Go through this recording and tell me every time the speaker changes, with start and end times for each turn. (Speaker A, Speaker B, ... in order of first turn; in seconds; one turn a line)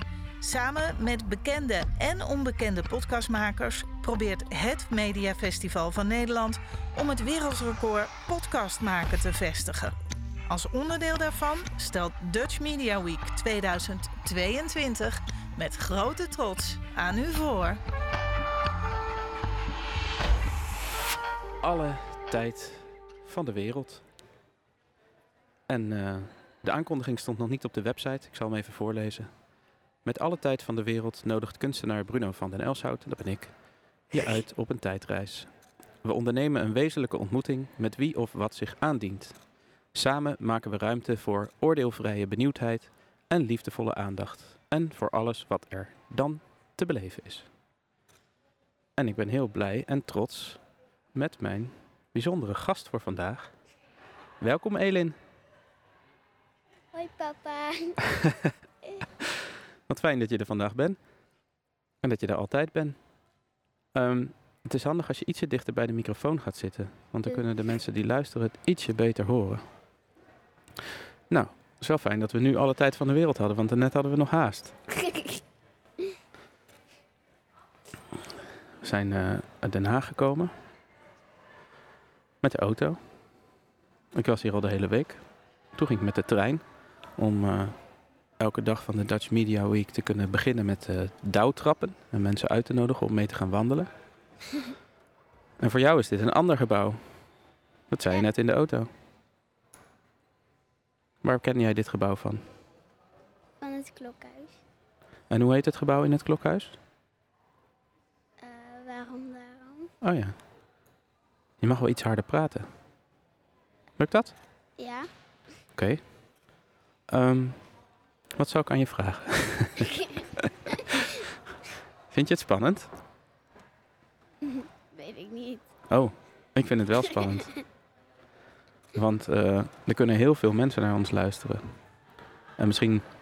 Speaker A: 0.4-9.9
Speaker A: 10.5-17.8
Speaker B: 21.6-24.0
Speaker B: 25.7-29.3
Speaker B: 30.1-33.5
Speaker B: 34.1-35.5
Speaker B: 36.0-39.4
Speaker B: 39.9-47.5
Speaker B: 49.0-50.6
Speaker B: 51.1-53.5
Speaker B: 54.4-55.2
Speaker C: 56.9-58.0
Speaker B: 58.1-58.5
Speaker B: 59.2-61.0
Speaker B: 62.0-63.0
Speaker B: 63.9-69.7
Speaker B: 71.3-74.8
Speaker C: 74.9-75.4
Speaker B: 78.8-80.5
Speaker B: 82.4-83.0
Speaker B: 84.1-85.2
Speaker B: 85.7-86.6
Speaker B: 87.2-87.8
Speaker B: 88.4-93.9
Speaker B: 95.6-97.0
Speaker B: 97.9-98.9
Speaker B: 101.2-102.5
Speaker C: 103.6-104.6
Speaker B: 105.3-106.8
Speaker C: 108.4-109.9
Speaker B: 110.0-110.4
Speaker B: 111.6-112.7
Speaker B: 114.0-114.3
Speaker C: 114.8-115.1
Speaker B: 115.8-116.0
Speaker B: 117.1-117.6
Speaker B: 118.3-121.3
Speaker C: 119.9-121.2
Speaker B: 122.1-122.9
Speaker C: 124.4-125.7
Speaker B: 125.9-127.5
Speaker C: 127.0-127.6
Speaker B: 128.9-131.7
Speaker B: 132.6-133.1